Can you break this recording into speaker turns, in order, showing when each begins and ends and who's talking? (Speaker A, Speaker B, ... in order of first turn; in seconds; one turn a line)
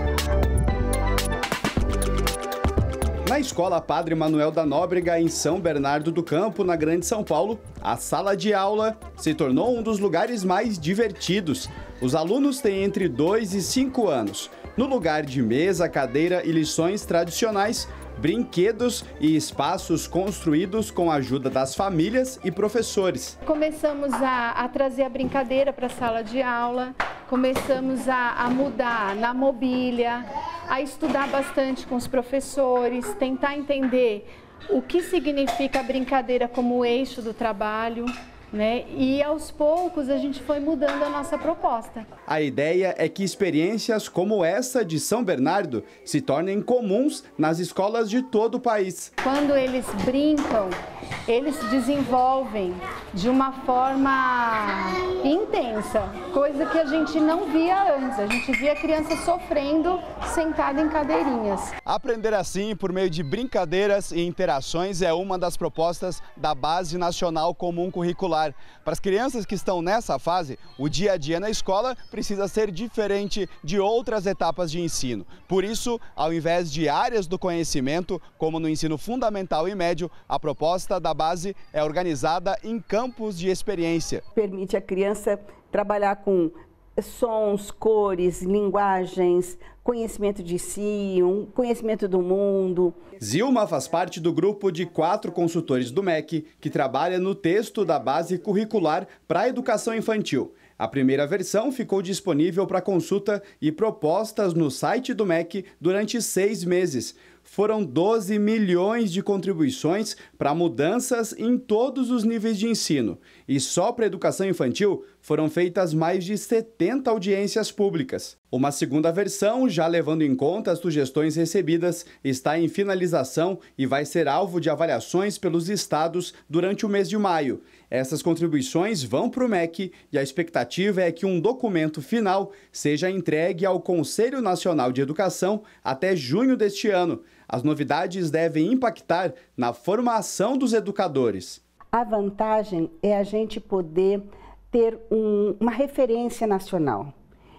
Speaker A: 3.2-23.4
Speaker B: 23.4-42.1
Speaker A: 42.3-49.1
Speaker B: 49.2-50.7
Speaker B: 51.3-61.7
Speaker A: 61.9-84.2
Speaker C: 84.3-93.0
Speaker A: 93.2-141.6
Speaker C: 141.9-147.1